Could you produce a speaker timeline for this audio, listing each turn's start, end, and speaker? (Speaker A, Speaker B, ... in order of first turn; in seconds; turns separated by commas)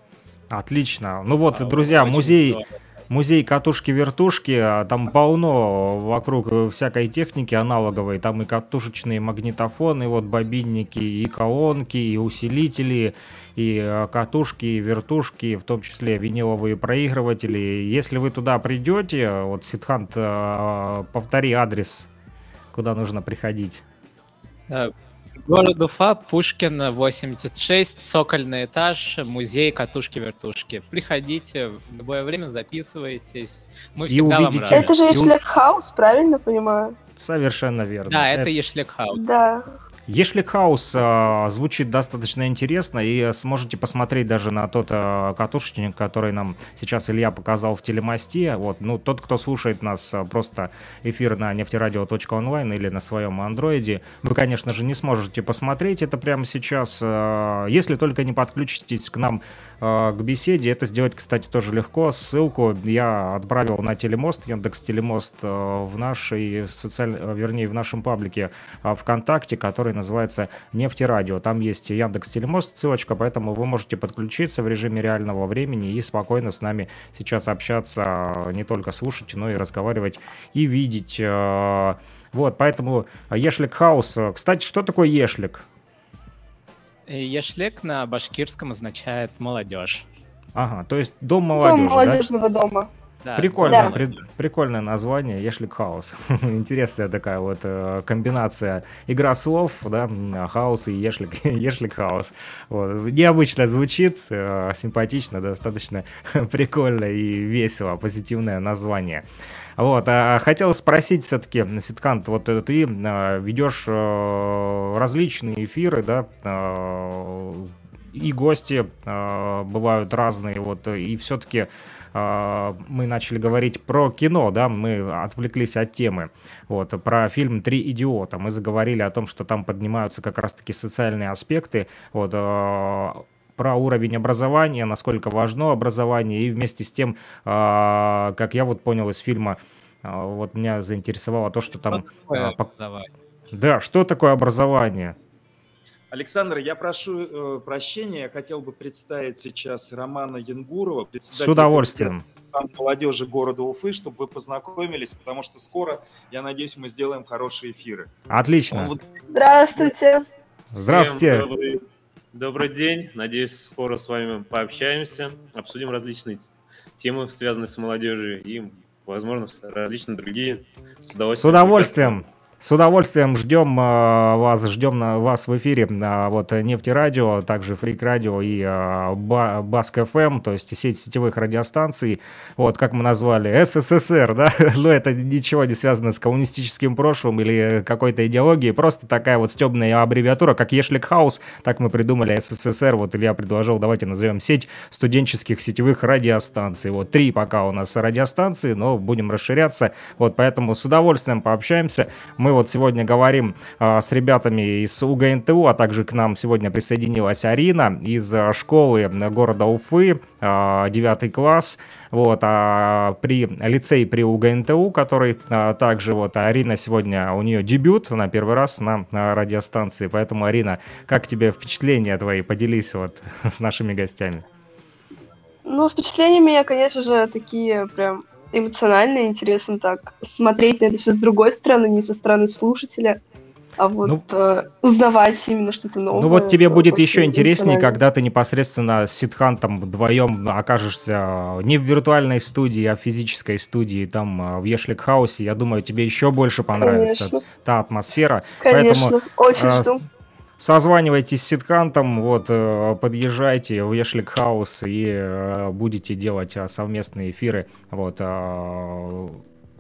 Speaker A: 0.5-22.1, Speaker B: 1.5-2.7, Speaker A: 22.7-23.8, Speaker B: 25.4-34.9, Speaker A: 34.1-35.4, Speaker C: 34.7-37.0, Speaker A: 37.2-38.5, Speaker B: 38.1-39.2, Speaker C: 39.1-39.7, Speaker A: 40.1-85.7, Speaker B: 87.1-90.1, Speaker A: 90.5-92.2, Speaker C: 91.6-92.9, Speaker B: 93.2-94.2, Speaker A: 93.4-109.2, Speaker C: 93.7-93.9, Speaker A: 109.8-142.7, Speaker B: 141.9-143.1, Speaker A: 143.5-145.2, Speaker D: 146.1-158.1, Speaker A: 151.3-152.2, Speaker A: 158.3-158.9, Speaker D: 158.7-159.0, Speaker C: 159.3-160.2, Speaker A: 160.7-161.5, Speaker E: 160.8-161.8, Speaker E: 162.3-166.5, Speaker E: 167.0-172.2, Speaker A: 171.3-224.4, Speaker C: 225.7-233.2, Speaker C: 233.8-238.0, Speaker A: 236.1-249.9, Speaker C: 246.8-247.4, Speaker C: 248.6-250.0, Speaker A: 250.6-259.4